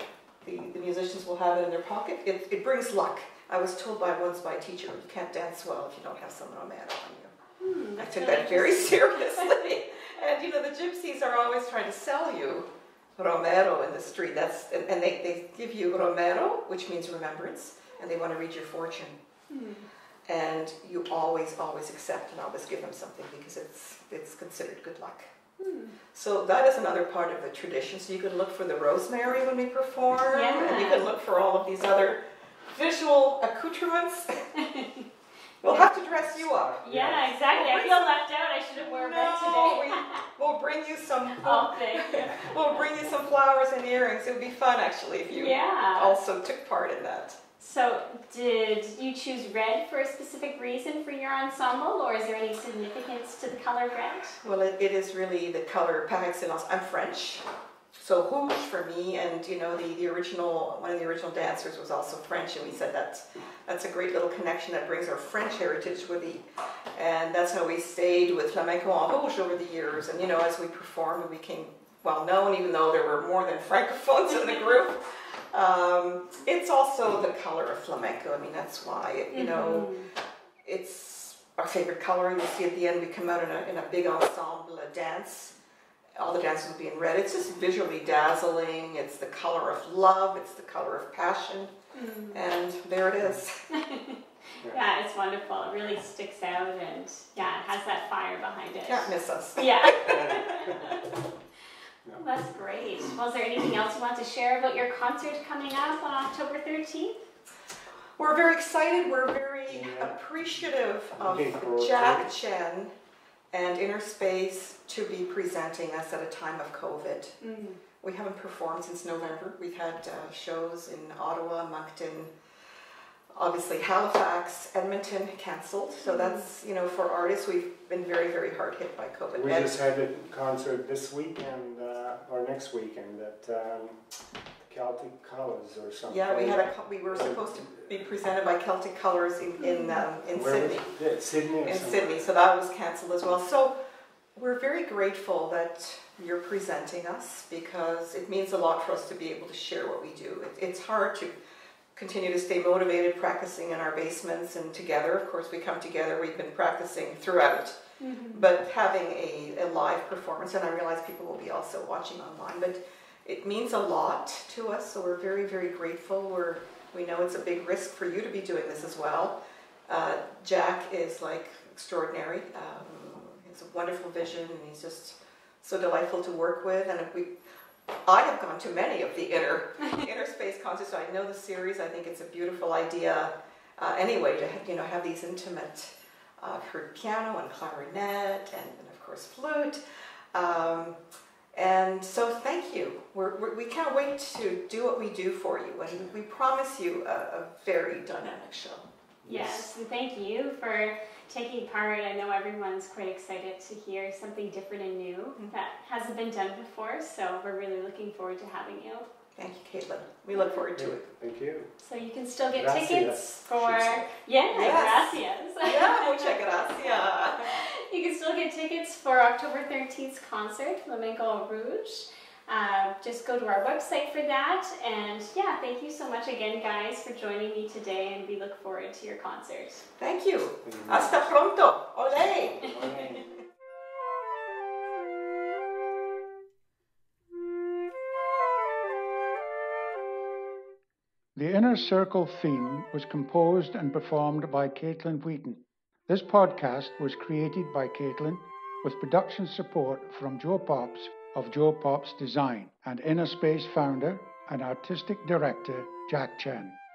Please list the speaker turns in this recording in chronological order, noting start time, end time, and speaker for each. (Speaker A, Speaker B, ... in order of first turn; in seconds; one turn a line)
Speaker A: 0.4-7.3
Speaker B: 7.6-9.6
Speaker A: 8.0-19.1
Speaker B: 19.5-19.9
Speaker A: 20.3-25.3
Speaker B: 25.6-25.9
Speaker A: 26.1-32.2
Speaker B: 30.2-31.1
Speaker A: 32.7-34.4
Speaker B: 34.5-35.0
Speaker A: 35.6-36.8
Speaker B: 35.6-36.0
Speaker C: 36.2-37.3
Speaker B: 36.8-40.2
Speaker A: 37.5-38.1
Speaker A: 38.8-47.4
Speaker B: 41.4-42.8
Speaker B: 45.3-46.1
Speaker B: 47.6-54.4
Speaker A: 54.4-57.4
Speaker A: 58.0-66.4
Speaker A: 66.9-79.9
Speaker B: 79.3-80.1
Speaker A: 80.6-85.5
Speaker A: 86.2-91.7
Speaker B: 91.9-92.4
Speaker A: 92.3-93.6
Speaker B: 93.7-101.0
Speaker A: 98.8-100.2
Speaker C: 100.0-101.0
Speaker B: 102.2-107.2
Speaker A: 108.2-112.9
Speaker C: 109.7-110.2
Speaker C: 111.1-112.3
Speaker A: 113.5-117.3
Speaker B: 117.4-117.8
Speaker A: 118.0-122.3
Speaker A: 123.3-129.8
Speaker B: 126.0-126.5
Speaker C: 129.3-134.0
Speaker C: 134.6-137.9
Speaker A: 136.1-140.9
Speaker B: 139.6-140.1
Speaker C: 140.3-142.3
Speaker A: 141.6-143.7
Speaker A: 144.3-151.3
Speaker A: 151.9-157.8
Speaker B: 158.0-158.5
Speaker A: 158.3-177.3
Speaker A: 178.1-189.8
Speaker A: 190.3-190.9
Speaker A: 191.5-198.8
Speaker C: 199.2-199.7
Speaker B: 199.3-209.1
Speaker A: 209.3-211.0
Speaker B: 210.3-210.6
Speaker C: 210.7-211.7
Speaker B: 211.8-229.8
Speaker C: 212.5-214.1
Speaker A: 214.5-217.5
Speaker A: 230.0-232.7
Speaker C: 230.6-231.2
Speaker C: 232.4-233.2
Speaker D: 241.3-256.8